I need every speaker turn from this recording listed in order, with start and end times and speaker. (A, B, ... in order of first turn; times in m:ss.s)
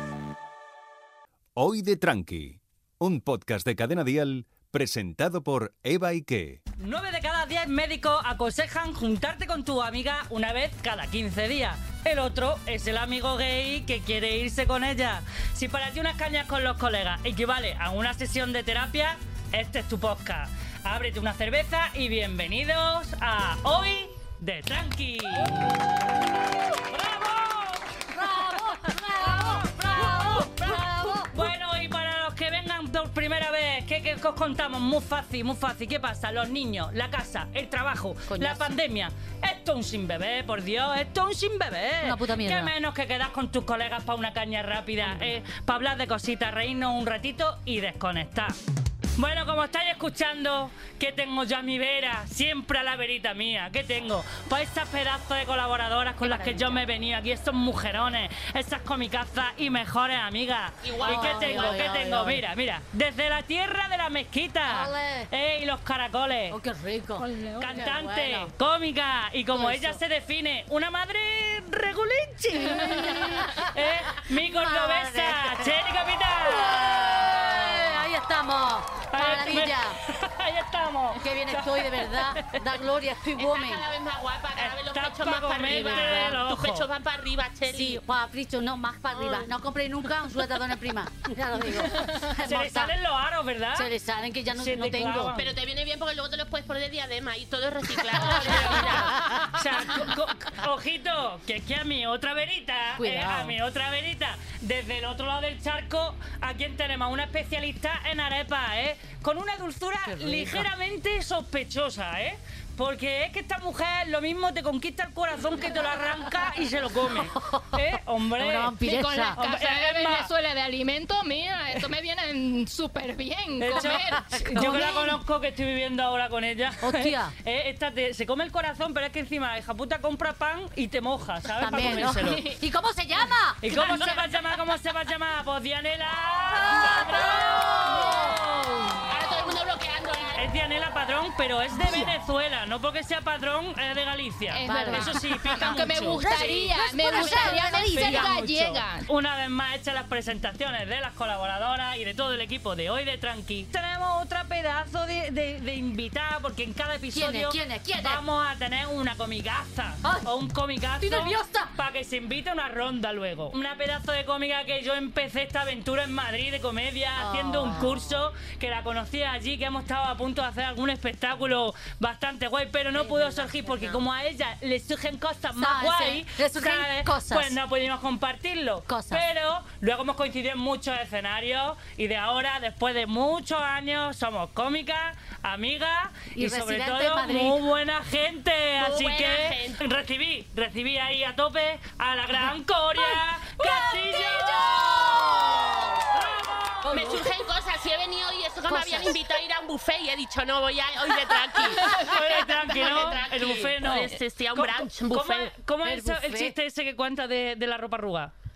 0:01.6-0:06.6 A
0:06.8-0:25.8 B
0:26.8-0:28.2 B
0:28.1-0:31.5 C
0:29.2-0:48.6 B
0:38.3-0:38.8 C
0:42.0-0:42.7 C
0:45.0-0:45.3 C
0:49.2-1:06.6 B
0:56.2-0:56.8 C
1:00.8-1:02.0 D
1:01.0-1:02.4 C
1:04.7-1:05.3 C
1:06.5-1:08.5 C
1:07.2-1:07.6 E
1:07.6-1:17.9 B
1:09.5-1:10.0 C
1:09.6-1:09.9 D
1:12.5-1:15.8 C
1:16.4-1:20.0 C
1:19.1-1:22.6 B
1:21.1-1:23.8 C
1:23.4-1:28.0 D
1:24.6-1:26.8 B
1:25.6-1:26.4 C
1:27.7-1:32.9 C
1:29.1-1:29.5 D
1:32.2-1:33.9 B
1:33.7-1:35.3 C
1:34.5-1:35.5 B
1:35.3-1:39.2 D
1:38.2-1:58.8 B
1:38.4-1:39.6 C
1:43.0-1:43.6 C
1:50.0-1:50.7 C
1:57.2-1:57.8 C
1:58.4-1:59.4 C
1:58.8-2:04.9 E
1:59.3-2:00.3 B
2:03.6-2:12.5 B
2:03.7-2:05.2 C
2:06.8-2:07.3 C
2:11.6-2:14.2 C
2:11.7-2:12.6 E
2:13.6-2:19.0 B
2:13.9-2:14.1 D
2:16.7-2:19.0 C
2:16.8-2:17.6 E
2:19.1-2:20.5 D
2:20.4-2:26.2 B
2:21.7-2:22.1 C
2:24.5-2:29.1 E
2:24.6-2:28.8 C
2:27.1-2:28.4 B
2:29.0-3:17.2 B
2:37.1-2:38.2 C
2:40.0-2:40.3 C
2:41.0-2:41.7 C
2:47.2-2:48.1 C
2:53.0-2:54.0 C
2:55.5-2:57.6 C
2:58.9-2:59.2 C
3:06.3-3:07.6 C
3:08.8-3:09.8 D
3:13.6-3:16.0 E
3:15.4-3:15.7 C
3:16.9-3:17.2 C
3:16.9-3:25.5 D
3:18.7-3:19.2 C
3:21.8-3:22.2 E
3:21.9-3:28.3 B
3:25.8-3:26.6 C